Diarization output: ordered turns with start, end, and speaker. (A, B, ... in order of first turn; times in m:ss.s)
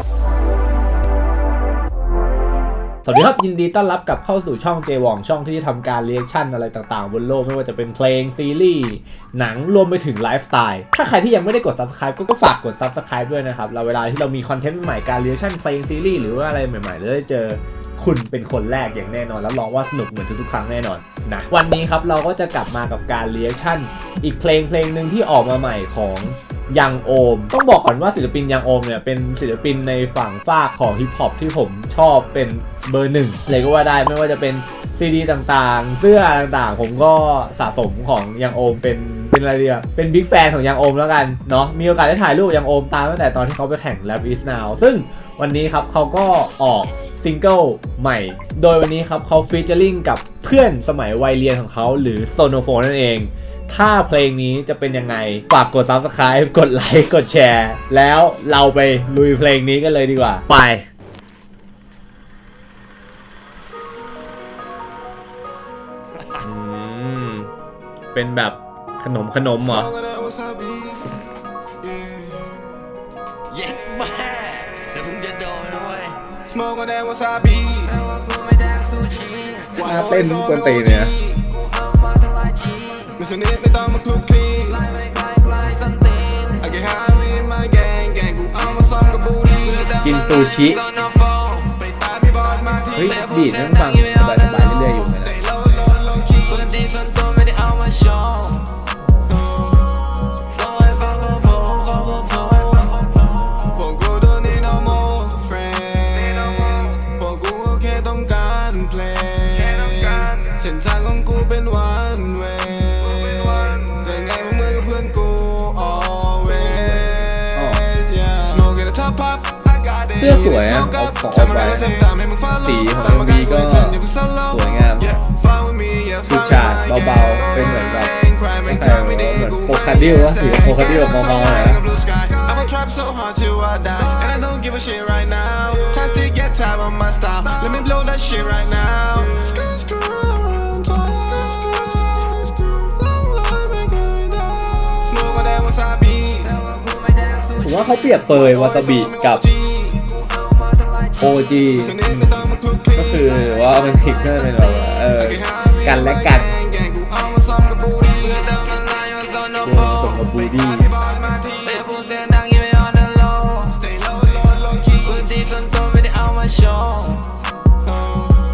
0:03.0-1:00.9 A
1:06.4-1:07.5 A
1:08.1-1:09.9 A
1:09.7-1:11.1 B
1:11.8-1:12.7 B
1:13.5-1:16.4 C
1:16.5-1:17.9 B
1:17.9-1:19.8 C
1:19.7-1:21.4 B
1:19.8-1:21.2 A
1:21.5-1:23.2 C
1:23.2-1:24.8 B
1:24.7-1:26.7 C
1:26.6-1:29.9 B
1:29.6-1:31.8 C
1:30.0-1:30.8 A
1:31.8-1:33.3 B
1:32.9-1:35.4 A
1:33.1-1:35.0 C
1:35.1-1:36.7 B
1:36.4-1:38.9 C
1:40.4-1:43.3 C
1:43.7-2:26.5 B
1:46.3-1:46.8 C
1:49.6-1:50.4 C
1:53.3-1:53.7 C
1:56.7-1:57.9 A
2:00.1-2:02.0 A
2:02.6-2:05.2 A
2:06.3-2:11.8 A
2:26.4-2:28.0 C
2:27.6-2:29.4 A
2:28.3-2:30.1 B
2:30.4-2:31.4 C
2:31.2-2:36.6 A
2:31.8-2:33.3 B
2:35.2-2:38.5 B
2:38.2-2:40.3 C
2:39.6-2:40.9 A
2:40.6-2:41.8 B
2:41.6-2:43.8 C
2:43.7-2:45.2 B
2:45.0-2:47.4 C